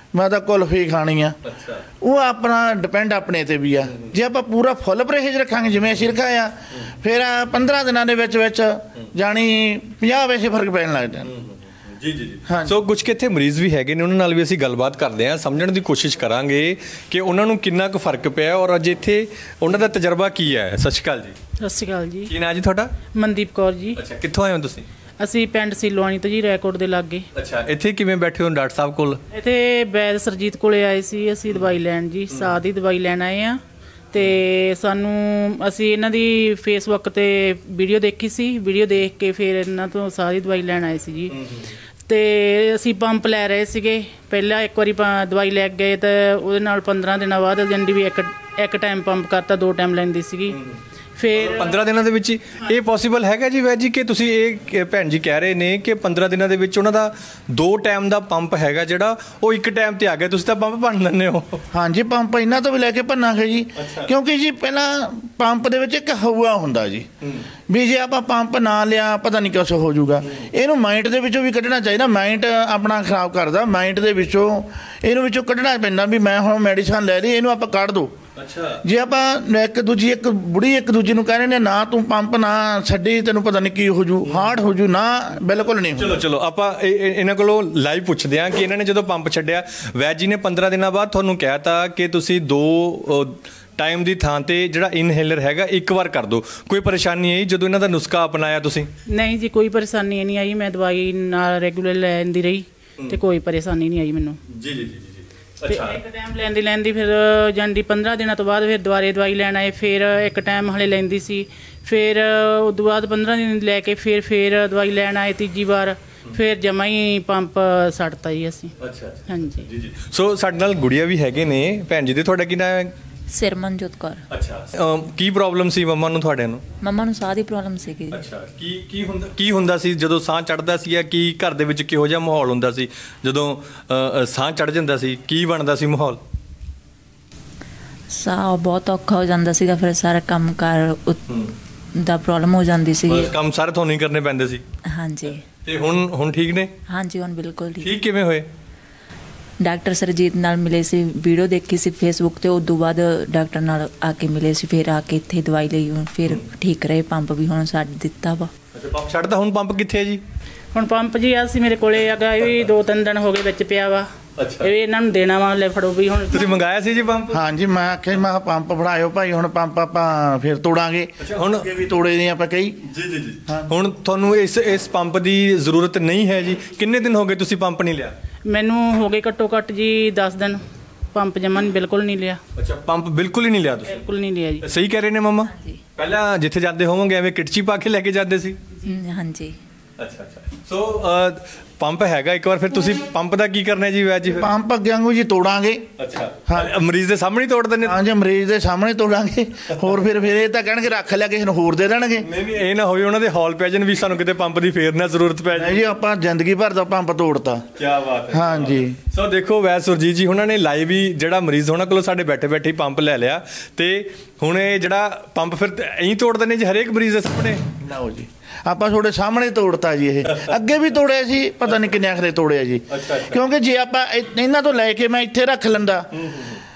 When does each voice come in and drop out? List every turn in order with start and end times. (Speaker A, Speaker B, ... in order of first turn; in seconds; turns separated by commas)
Speaker A: 0.1-1.4, Speaker B: 1.4-1.8, Speaker A: 2.0-11.3, Speaker B: 11.2-21.4, Speaker A: 12.5-12.8, Speaker C: 21.6-22.3, Speaker B: 22.3-22.9, Speaker C: 23.1-24.0, Speaker B: 23.9-24.9, Speaker C: 25.2-27.3, Speaker B: 27.3-29.2, Speaker C: 29.3-33.6, Speaker C: 34.1-41.3, Speaker B: 41.3-41.7, Speaker C: 42.1-50.6, Speaker B: 50.5-50.8, Speaker C: 51.2-51.8, Speaker B: 51.4-61.6, Speaker A: 61.7-67.1, Speaker B: 63.8-64.1, Speaker B: 67.2-67.5, Speaker A: 67.7-78.2, Speaker B: 78.4-78.8, Speaker A: 78.8-86.2, Speaker B: 86.0-98.9, Speaker C: 99.1-104.4, Speaker B: 104.5-106.0, Speaker C: 105.7-118.7, Speaker B: 118.8-122.9, Speaker C: 119.3-119.7, Speaker D: 123.3-124.2, Speaker B: 124.3-126.6, Speaker D: 126.8-128.2, Speaker B: 128.1-136.2, Speaker D: 138.1-141.3, Speaker D: 141.9-143.3, Speaker B: 143.1-144.6, Speaker D: 144.8-145.4, Speaker B: 145.7-146.7, Speaker D: 146.9-147.9, Speaker B: 147.8-148.5, Speaker D: 149.6-158.5, Speaker B: 158.7-160.2, Speaker C: 160.7-164.1, Speaker B: 164.4-164.7, Speaker C: 164.6-166.6, Speaker B: 166.3-167.4, Speaker A: 167.3-172.8, Speaker B: 171.2-171.7, Speaker B: 172.8-178.1, Speaker A: 173.5-173.7, Speaker C: 178.4-180.6, Speaker C: 181.1-182.4, Speaker B: 182.6-184.1, Speaker C: 183.9-184.7, Speaker B: 184.6-188.6, Speaker D: 185.5-185.8, Speaker D: 188.8-189.6, Speaker B: 190.0-194.5, Speaker A: 194.3-195.9, Speaker B: 196.0-198.0, Speaker A: 196.5-196.7, Speaker A: 197.8-202.3, Speaker B: 202.2-205.8, Speaker A: 205.6-207.7, Speaker B: 207.8-217.7, Speaker A: 208.3-209.0, Speaker A: 217.8-226.1, Speaker B: 222.9-223.4, Speaker B: 226.1-226.6